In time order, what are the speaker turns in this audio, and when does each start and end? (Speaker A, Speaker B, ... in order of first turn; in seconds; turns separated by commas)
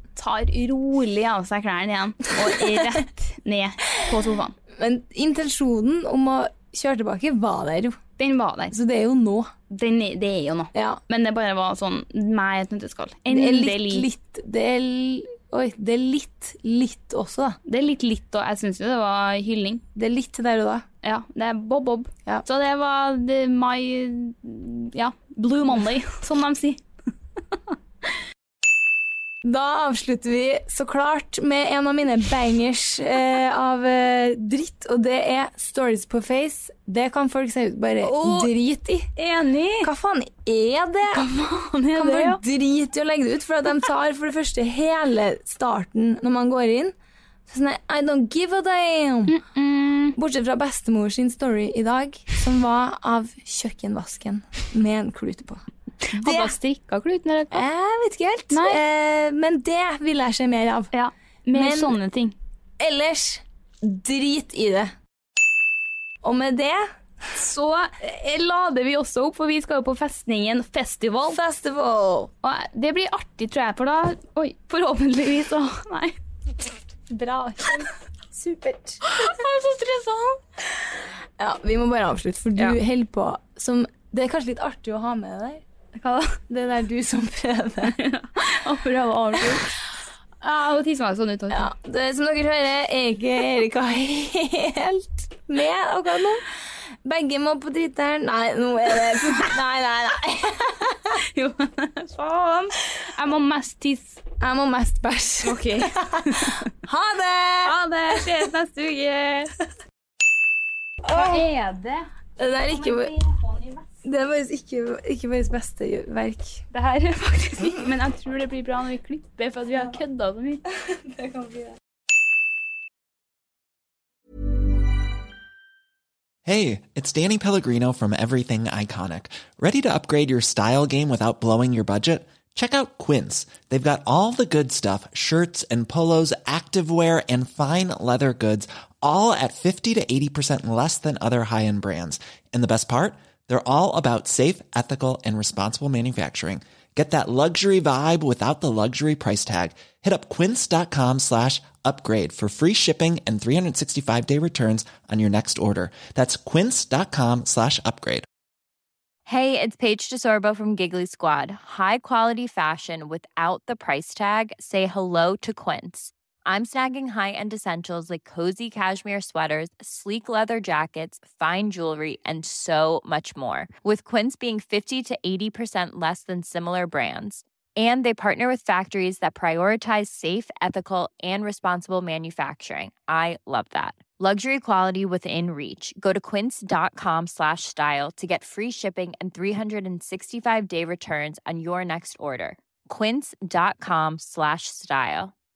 Speaker A: 0.1-4.6, Speaker B: 2.4-3.0, Speaker B: 4.8-8.0, Speaker A: 8.2-8.8, Speaker B: 8.7-9.5, Speaker A: 9.7-14.1, Speaker B: 10.7-11.0, Speaker B: 13.3-17.6, Speaker A: 17.7-19.8, Speaker B: 19.9-20.9, Speaker A: 21.0-26.8, Speaker B: 29.4-39.1, Speaker A: 38.0-38.5, Speaker A: 39.2-39.9, Speaker B: 39.8-41.3, Speaker A: 41.1-42.4, Speaker B: 42.0-46.9, Speaker B: 47.5-49.4, Speaker A: 49.3-50.2, Speaker B: 50.2-56.5, Speaker A: 56.1-57.7, Speaker B: 57.5-60.9, Speaker A: 58.5-58.8, Speaker A: 60.9-62.4, Speaker B: 61.5-62.0, Speaker B: 62.8-64.9, Speaker B: 66.2-66.9, Speaker A: 67.3-71.4, Speaker B: 71.3-72.3, Speaker A: 72.4-76.2, Speaker B: 77.1-79.0, Speaker A: 79.0-80.4, Speaker B: 81.4-85.6, Speaker A: 85.9-86.4, Speaker B: 86.5-88.0, Speaker A: 87.8-89.8, Speaker A: 90.4-91.7, Speaker B: 91.5-96.5, Speaker B: 97.0-101.2, Speaker A: 101.2-104.2, Speaker B: 104.4-108.3, Speaker A: 105.4-106.7, Speaker A: 107.6-109.5, Speaker B: 111.0-111.5, Speaker A: 111.1-112.1, Speaker B: 112.4-113.1, Speaker A: 112.7-113.9, Speaker B: 114.0-116.6, Speaker A: 116.7-120.6, Speaker B: 120.7-121.8, Speaker C: 126.5-158.3, Speaker D: 159.3-195.3